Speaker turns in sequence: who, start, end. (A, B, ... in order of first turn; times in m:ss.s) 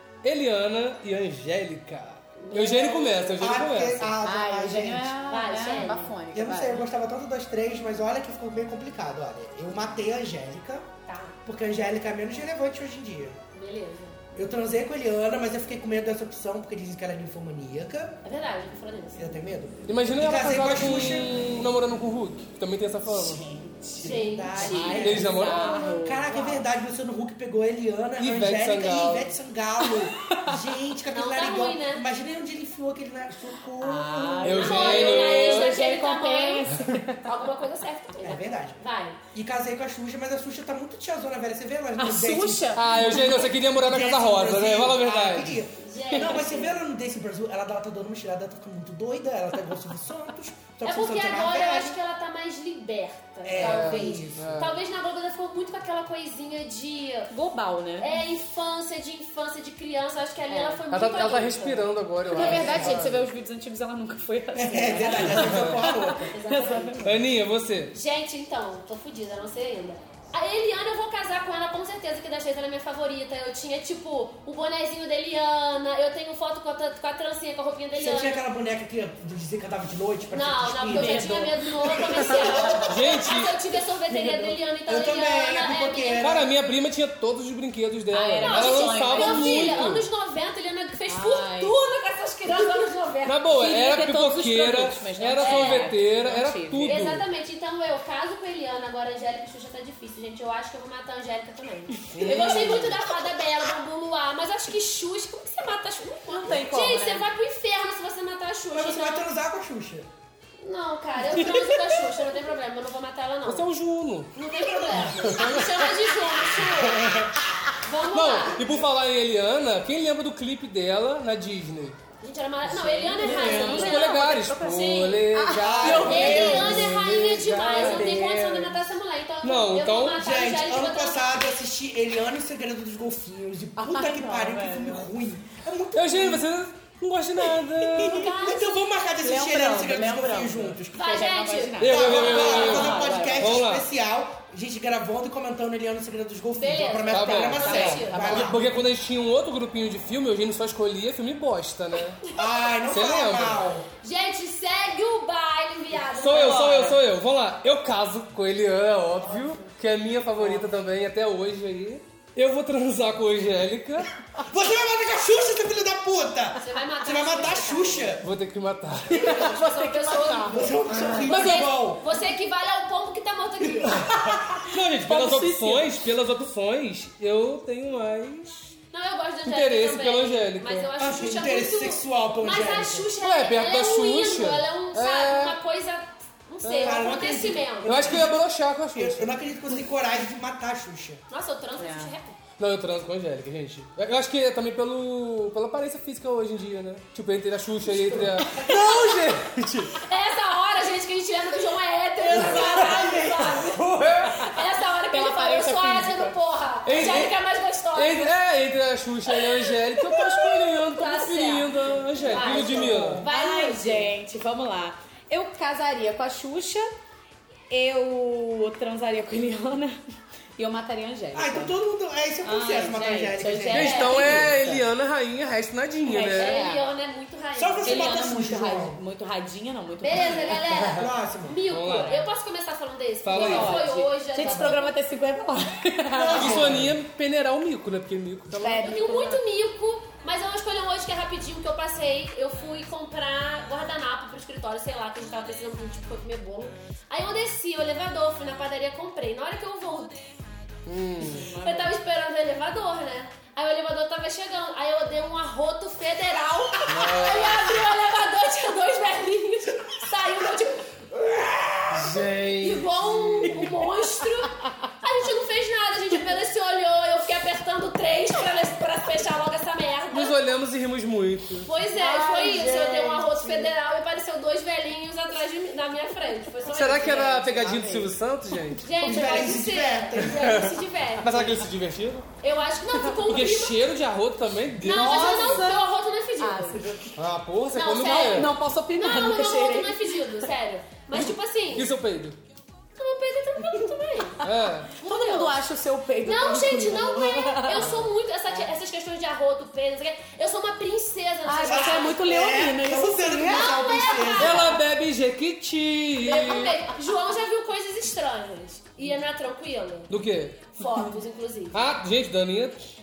0:00.2-0:04.1 A
0:02.4-0:03.4 B
0:03.4-0:05.1 C
0:04.2-0:06.9 D
0:05.3-0:06.1 B
0:06.3-0:10.9 C
0:11.0-0:11.4 B
0:11.4-0:13.4 C
0:13.5-0:14.2 B
0:14.4-0:18.2 C
0:18.2-0:19.2 B
0:19.2-0:21.7 C
0:19.9-0:23.4 A
0:23.4-0:34.7 C
0:24.0-0:25.2 B
0:24.0-0:26.7 D
0:24.9-0:25.8 A
0:28.2-0:29.4 A
0:29.8-0:30.7 D
0:31.1-0:32.0 B
0:33.8-0:37.3 D
0:34.4-0:35.7 A
0:34.5-0:36.7 B
0:37.2-0:39.2 B
0:38.2-0:52.0 C
0:42.0-0:43.5 D
0:42.7-0:45.6 A
0:45.8-0:46.8 B
0:50.8-0:57.3 B
0:53.4-0:54.7 C
0:53.6-0:54.8 A
0:57.3-0:58.2 D
0:58.0-1:01.9 B
1:00.5-1:00.9 D
1:00.9-1:03.2 A
1:02.3-1:07.1 D
1:02.3-1:03.1 C
1:04.5-1:06.3 C
1:05.0-1:07.2 B
1:05.2-1:05.8 A
1:07.0-1:07.9 A
1:07.9-1:18.4 B
1:17.9-1:22.7 C
1:20.3-1:26.3 B
1:20.9-1:22.9 D
1:22.8-1:23.6 A
1:24.1-1:24.5 D
1:24.9-1:26.5 C
1:26.2-1:30.1 A
1:28.1-1:29.9 D
1:28.4-1:33.5 B
1:31.1-1:31.7 D
1:33.2-1:37.2 A
1:33.5-1:37.0 D
1:35.4-1:35.9 B
1:36.8-1:49.3 B
1:42.1-1:43.0 A
1:42.1-1:42.8 D
1:46.3-1:47.3 D
1:48.7-1:50.1 C
1:50.6-1:53.7 B
1:53.4-1:54.3 A
1:54.3-1:57.2 B
1:54.9-1:55.9 A
1:56.6-1:57.4 A
1:57.8-1:58.7 B
1:58.1-2:02.0 A
2:02.2-2:05.2 B
2:02.8-2:04.6 D
2:02.9-2:08.8 A
2:03.2-2:03.8 C
2:05.3-2:07.0 D
2:05.6-2:07.0 C
2:06.0-2:11.3 B
2:07.7-2:08.4 D
2:09.4-2:10.2 A
2:10.2-2:16.4 C
2:13.8-2:15.1 D
2:15.9-2:18.3 A
2:18.0-2:21.2 C
2:18.0-2:18.8 B
2:19.2-2:23.6 D
2:20.9-2:23.2 B
2:21.8-2:23.9 A
2:21.8-2:28.8 C
2:26.6-2:28.5 B
2:27.1-2:32.2 A
2:27.6-2:28.4 D
2:32.2-2:32.7 B
2:32.3-2:33.8 C
2:32.9-2:33.7 A
2:34.0-2:37.0 B
2:36.1-2:44.1 A
2:36.4-2:36.9 D
2:44.4-2:48.3 C
2:46.6-2:48.2 B
2:48.2-2:49.4 A
2:49.1-2:51.3 D
2:49.1-2:54.0 B
2:50.5-2:52.0 C
2:51.2-2:51.8 A
2:53.9-2:58.7 A
2:54.1-2:56.0 D
2:58.9-3:08.2 B
2:59.4-3:00.9 A
3:01.0-3:03.1 C
3:03.2-3:05.6 A
3:06.6-3:07.0 A
3:06.8-3:08.4 C
3:07.8-3:09.3 A
3:08.9-3:11.2 C
3:11.3-3:12.4 B
3:11.8-3:12.1 D
3:12.6-3:20.0 A
3:17.8-3:19.0 C
3:18.6-3:19.2 B
3:20.0-3:28.3 B
3:22.2-3:24.5 C
3:23.8-3:24.4 A
3:25.1-3:26.4 D
3:26.8-3:27.4 A
3:27.9-3:33.2 A
3:30.8-3:34.1 B
3:32.3-3:33.3 C
3:32.4-3:36.9 D
3:37.7-3:40.0 D
3:40.6-3:41.7 D
3:41.3-3:44.5 C
3:42.4-3:44.9 D
3:43.7-3:44.5 B
3:43.7-3:46.6 A
3:46.1-3:48.3 B
3:46.1-3:46.8 D
3:47.6-3:49.0 C
3:47.8-3:50.9 D
3:50.0-3:54.9 B
3:50.7-3:51.6 C
3:51.7-3:52.2 A
3:53.2-3:53.8 A
3:53.3-3:56.9 D
3:54.4-3:54.8 C
3:56.1-3:56.9 C
3:56.2-3:58.9 A
3:58.5-3:59.4 D
3:58.8-4:10.2 B
4:10.8-4:11.5 A
4:11.2-4:11.9 D
4:11.6-4:20.9 B
4:16.9-4:17.7 A
4:21.2-4:21.9 C
4:21.9-4:23.7 A
4:22.6-4:30.4 B
4:30.1-4:31.7 A
4:31.6-4:37.7 B
4:31.9-4:33.7 D
4:36.7-4:38.9 A
4:37.1-4:38.1 D
4:38.8-4:41.6 B
4:39.0-4:40.7 C
4:39.1-4:39.4 D
4:40.2-4:42.3 A
4:42.4-4:43.8 B
4:43.2-4:45.6 A
4:44.8-4:46.8 B
4:44.8-4:45.9 D
4:45.3-4:45.6 C
4:46.4-4:47.2 D
4:46.8-4:47.1 C
4:47.2-4:48.5 A
4:47.7-4:51.9 B
4:48.0-4:50.5 D
4:51.1-4:52.4 A
4:53.0-4:54.4 B
4:54.4-4:54.9 A
4:54.4-4:57.9 D
4:55.0-4:55.6 B
4:56.2-5:02.2 B
4:57.7-4:58.1 A
5:01.4-5:04.3 D
5:01.6-5:04.7 C
5:03.4-5:04.8 B
5:04.4-5:06.8 A
5:06.2-5:10.1 B
5:10.1-5:11.1 A
5:10.8-5:11.8 B
5:11.7-5:12.8 A